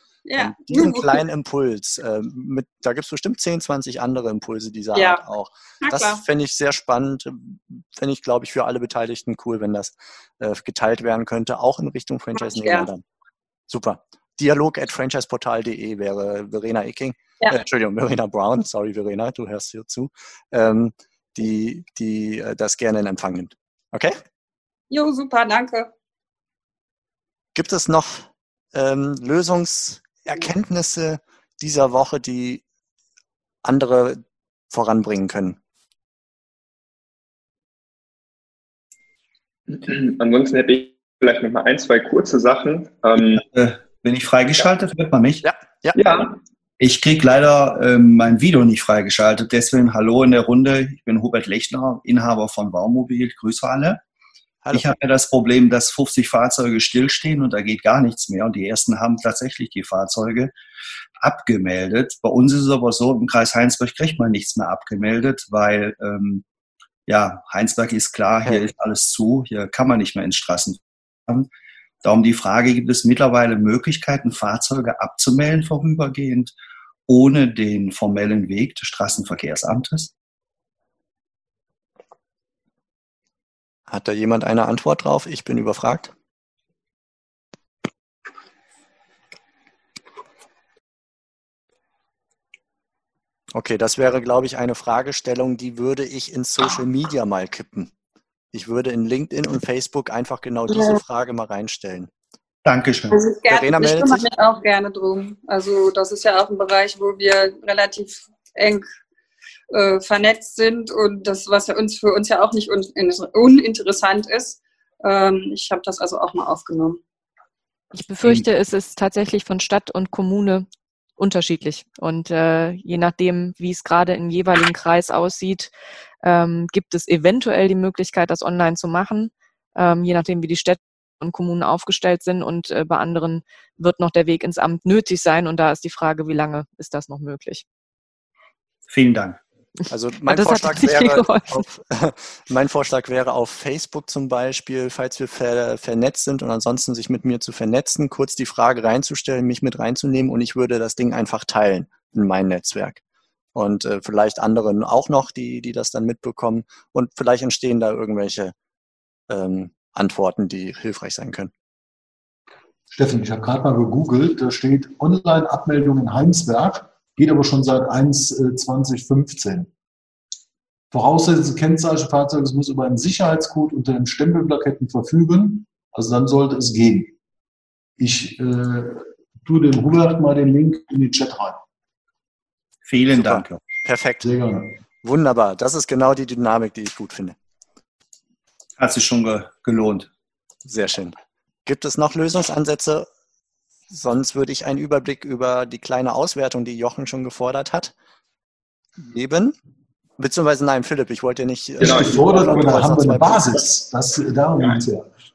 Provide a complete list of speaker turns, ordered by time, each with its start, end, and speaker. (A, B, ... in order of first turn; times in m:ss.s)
0:00.2-0:01.2 A
0:00.4-0:13.0 B
0:04.9-0:05.2 A
0:05.8-0:06.2 A
0:12.3-0:12.9 A
0:13.7-0:24.2 B
0:24.9-0:25.9 A
0:27.5-0:32.6 B
0:33.6-0:35.6 B
0:39.7-0:43.4 C
0:43.4-0:45.4 D
0:45.4-0:46.0 B
0:45.9-0:46.3 C
0:46.8-0:54.0 D
0:54.7-1:00.5 D
1:01.2-1:06.4 D
1:07.1-1:11.5 D
1:12.0-1:16.5 D
1:17.1-1:20.1 D
1:23.9-1:26.1 B
1:33.5-1:37.9 B
1:38.5-1:42.1 B
1:42.6-1:43.2 D
1:43.1-1:48.8 A
1:43.5-1:44.2 B
1:49.7-1:57.0 A
1:57.9-2:00.7 E
2:01.2-2:05.7 E
2:06.2-2:17.6 E
2:18.9-2:19.4 D
2:19.9-2:33.0 B
2:20.3-2:21.6 E
2:33.5-2:38.5 B
2:39.3-2:41.5 B
2:42.9-2:49.7 F
2:50.9-2:57.1 F
2:58.0-3:01.6 F
3:02.8-3:03.6 D
3:03.1-3:04.3 B
3:04.2-3:04.7 F
3:05.0-3:07.4 B
3:08.8-3:10.1 D
3:10.6-3:13.1 B
3:13.9-3:17.9 B
3:19.0-3:19.5 B
3:20.2-3:23.5 B
3:21.8-3:25.1 F
3:21.8-3:22.8 C